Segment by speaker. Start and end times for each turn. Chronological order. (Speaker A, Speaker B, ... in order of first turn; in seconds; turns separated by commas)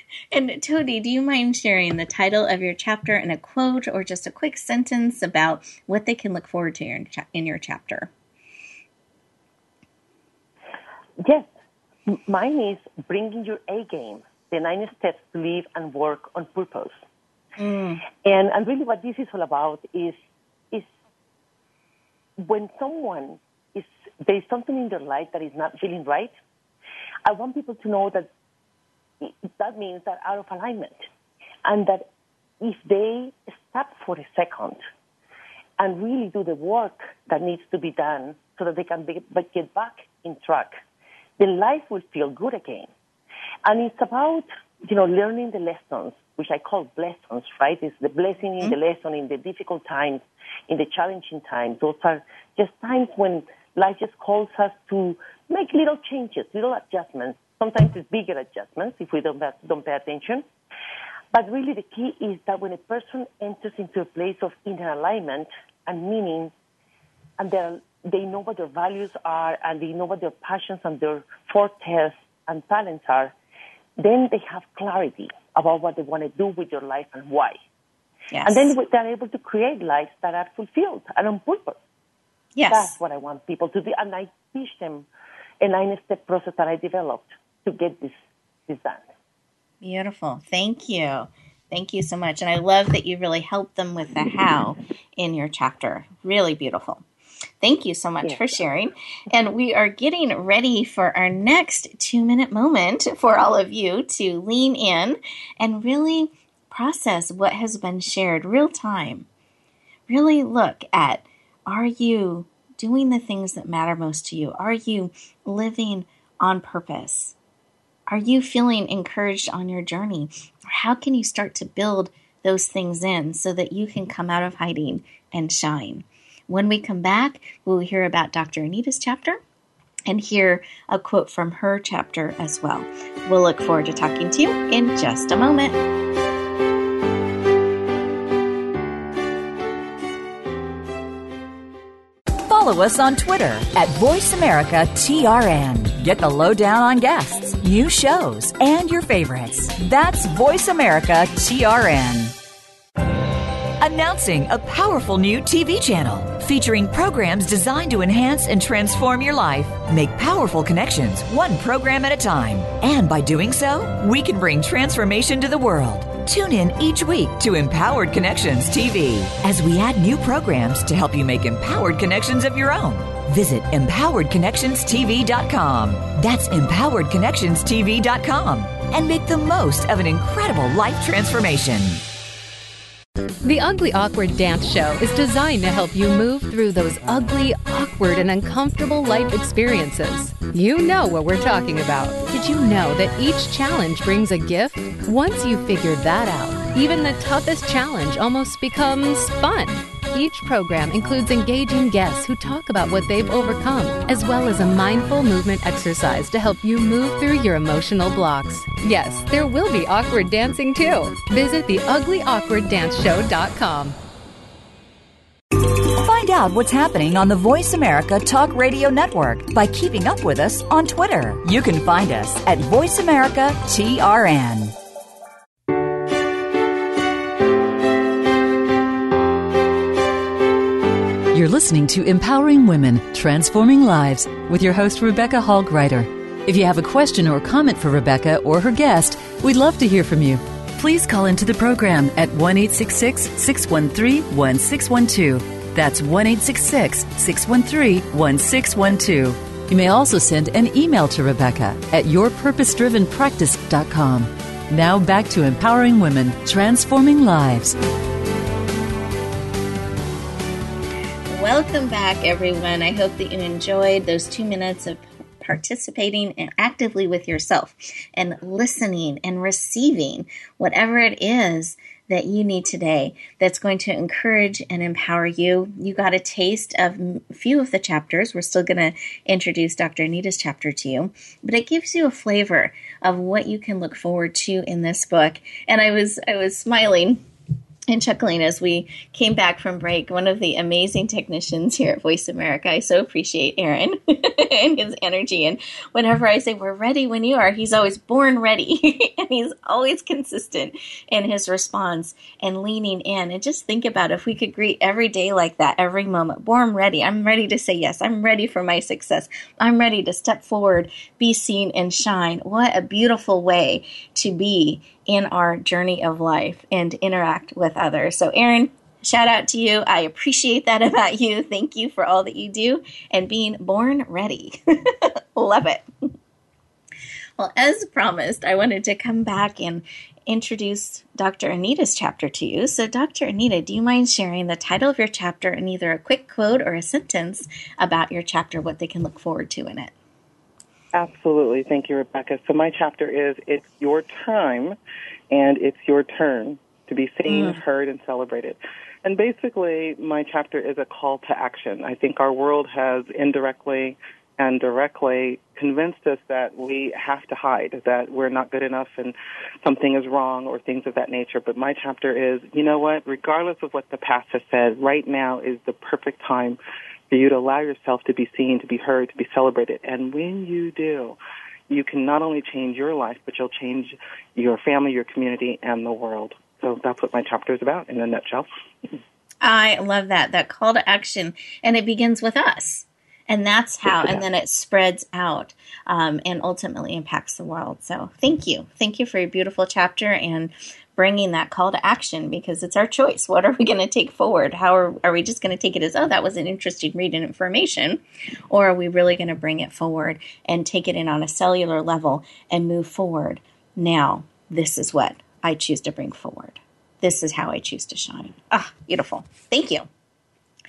Speaker A: 0.3-8.1, Speaker B: 11.2-11.5, Speaker B: 12.1-17.0, Speaker A: 17.6-18.0, Speaker B: 18.2-20.2, Speaker B: 22.4-26.3, Speaker B: 27.2-28.3, Speaker B: 29.2-31.0, Speaker B: 31.6-32.0, Speaker B: 32.6-34.8, Speaker B: 35.8-40.8, Speaker B: 41.4-42.9, Speaker B: 43.6-60.4, Speaker B: 61.3-66.5, Speaker B: 67.4-73.3, Speaker B: 74.0-77.6, Speaker A: 78.3-78.7, Speaker B: 78.5-81.8, Speaker A: 82.5-83.0, Speaker B: 82.7-85.1, Speaker B: 85.6-89.1, Speaker A: 89.8-97.0, Speaker A: 97.6-109.2, Speaker B: 98.2-98.6, Speaker A: 110.1-117.3, Speaker A: 118.1-129.4, Speaker A: 130.1-135.8, Speaker C: 142.4-152.3, Speaker C: 153.8-182.0, Speaker D: 183.4-214.0, Speaker C: 215.9-224.8, Speaker E: 231.3-257.8, Speaker A: 261.3-287.2, Speaker A: 287.9-325.9, Speaker A: 327.4-339.9, Speaker F: 340.9-344.8, Speaker F: 345.3-366.6, Speaker A: 347.3-347.6, Speaker F: 367.1-371.2, Speaker F: 371.7-378.5, Speaker A: 379.4-409.9